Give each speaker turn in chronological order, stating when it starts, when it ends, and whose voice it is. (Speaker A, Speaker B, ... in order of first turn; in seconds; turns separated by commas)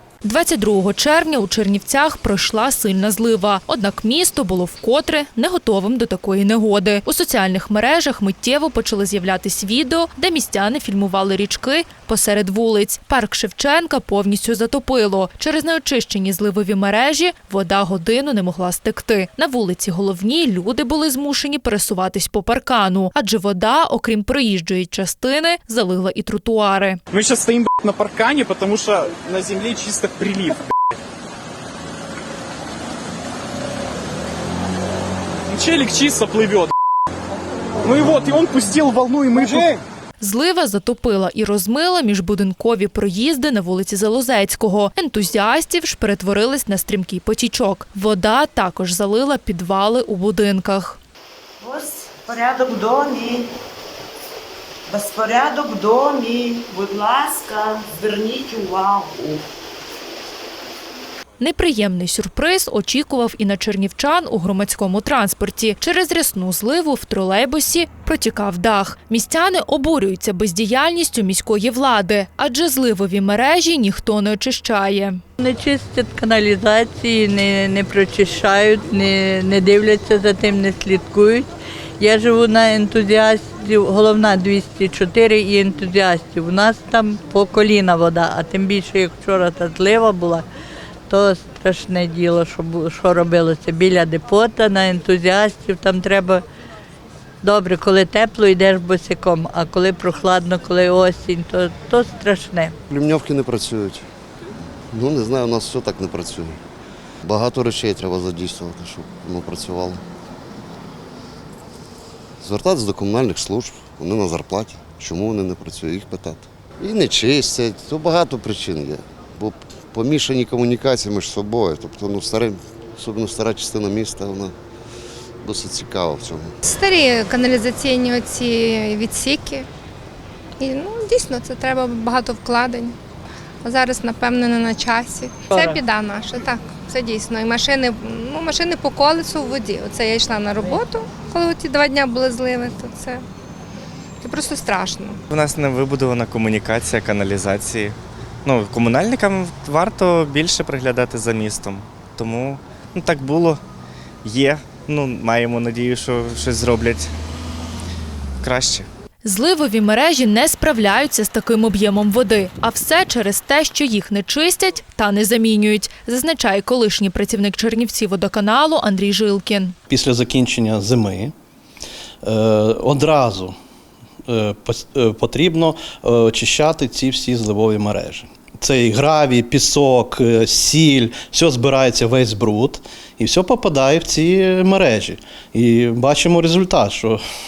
Speaker A: 0.2-27.0, Speaker B: 27.1-30.6, Speaker B: 35.5-36.7, Speaker B: 37.8-39.8, Speaker A: 40.2-51.0, Speaker C: 51.6-53.5, Speaker C: 54.9-59.4, Speaker A: 61.4-75.2, Speaker D: 75.4-90.5, Speaker D: 91.1-96.4, Speaker D: 97.4-102.7, Speaker E: 102.9-104.1, Speaker E: 104.9-106.6, Speaker E: 107.2-110.0, Speaker E: 112.4-124.5, Speaker E: 125.4-126.5, Speaker F: 126.7-129.7, Speaker F: 130.6-132.9, Speaker F: 133.6-143.2, Speaker F: 144.2-145.3, Speaker G: 145.3-153.6, Speaker G: 154.2-157.1, Speaker G: 158.4-158.9, Speaker A: 159.2-169.7, Speaker H: 169.9-171.3, Speaker H: 172.2-173.6, Speaker H: 174.3-187.2